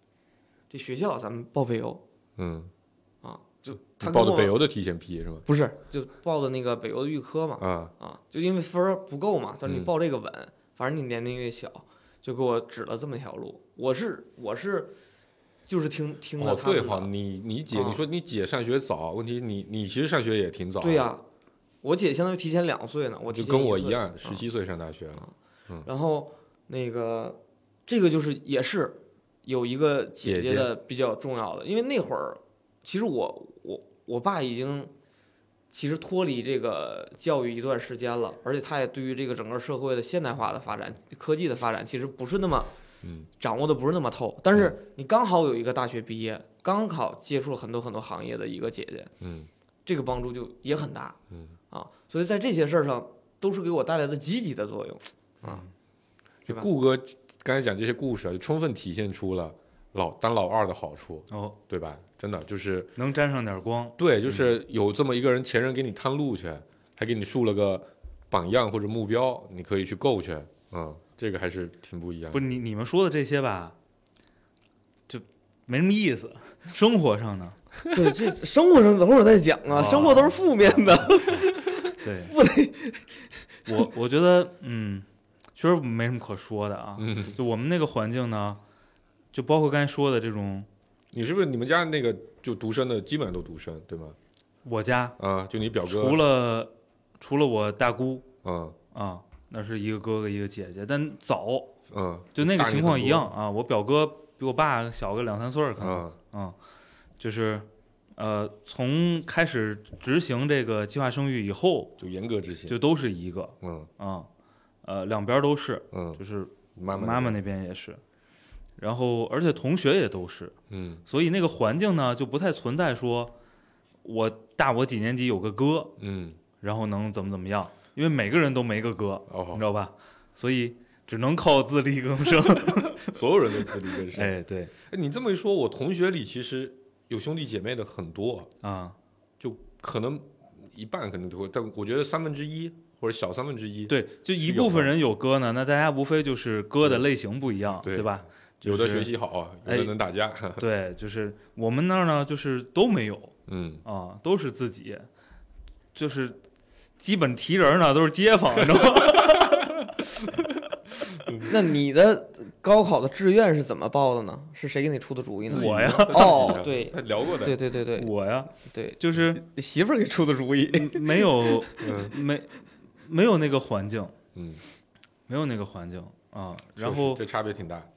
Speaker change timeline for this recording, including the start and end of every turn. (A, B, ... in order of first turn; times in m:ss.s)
0:00.7-0:02.0 A
0:02.4-0:02.7 B
0:03.2-0:04.6 A
0:04.0-0:05.4 B
0:05.5-0:14.9 A
0:07.6-0:07.9 B
0:09.6-0:09.9 B
0:15.7-0:17.1 A
0:16.4-0:21.1 B
0:17.7-0:18.0 A
0:20.8-0:21.2 A
0:21.8-0:24.4 A
0:23.3-0:25.9 B
0:25.8-0:34.9 A
0:30.2-0:30.7 B
0:35.7-0:42.7 A
0:43.0-0:43.3 B
0:43.4-0:49.1 A
0:49.2-0:49.5 B
0:49.9-0:51.2 A
0:51.7-0:55.6 A
0:56.5-1:02.9 B
1:01.3-1:01.6 C
1:03.0-1:04.5 C
1:04.0-1:12.4 B
1:12.3-1:13.8 C
1:15.1-1:17.6 C
1:17.9-1:23.1 A
1:19.8-1:22.3 C
1:23.7-1:25.0 C
1:25.6-1:28.6 C
1:27.0-1:27.4 B
1:29.3-1:30.7 C
1:31.1-1:34.2 B
1:34.6-1:35.2 C
1:35.2-1:36.2 B
1:35.8-1:38.3 C
1:38.4-1:38.8 B
1:38.9-1:41.8 C
1:41.9-1:43.3 B
1:42.4-1:46.6 C
1:45.8-1:46.2 B
1:47.2-1:52.0 C
1:52.0-1:52.8 B
1:52.7-1:54.3 C
1:53.6-1:53.9 B
1:54.8-1:58.0 C
1:55.9-1:56.2 B
1:56.8-1:57.4 B
1:58.8-2:00.6 C
2:00.7-2:01.0 B
2:01.1-2:03.3 C
2:04.0-2:06.0 C
2:06.0-2:06.4 B
2:06.6-2:13.2 C
2:09.3-2:09.7 B
2:12.6-2:18.5 B
2:13.7-2:14.7 C
2:18.6-2:19.0 C
2:19.4-2:24.9 B
2:23.9-2:29.1 C
2:27.8-2:30.7 B
2:29.6-2:29.9 C
2:30.6-2:35.1 C
2:33.5-2:33.8 B
2:36.0-2:36.4 C
2:37.0-2:39.9 C
2:38.6-2:40.5 B
2:41.1-2:41.5 B
2:41.4-2:48.1 A
2:45.5-2:46.6 C
2:45.5-2:47.6 B
2:48.0-2:49.4 C
2:48.7-2:51.8 A
2:50.7-2:54.2 C
2:51.8-2:52.1 B
2:54.4-2:54.6 B
2:55.3-2:57.2 C
2:56.8-2:57.9 B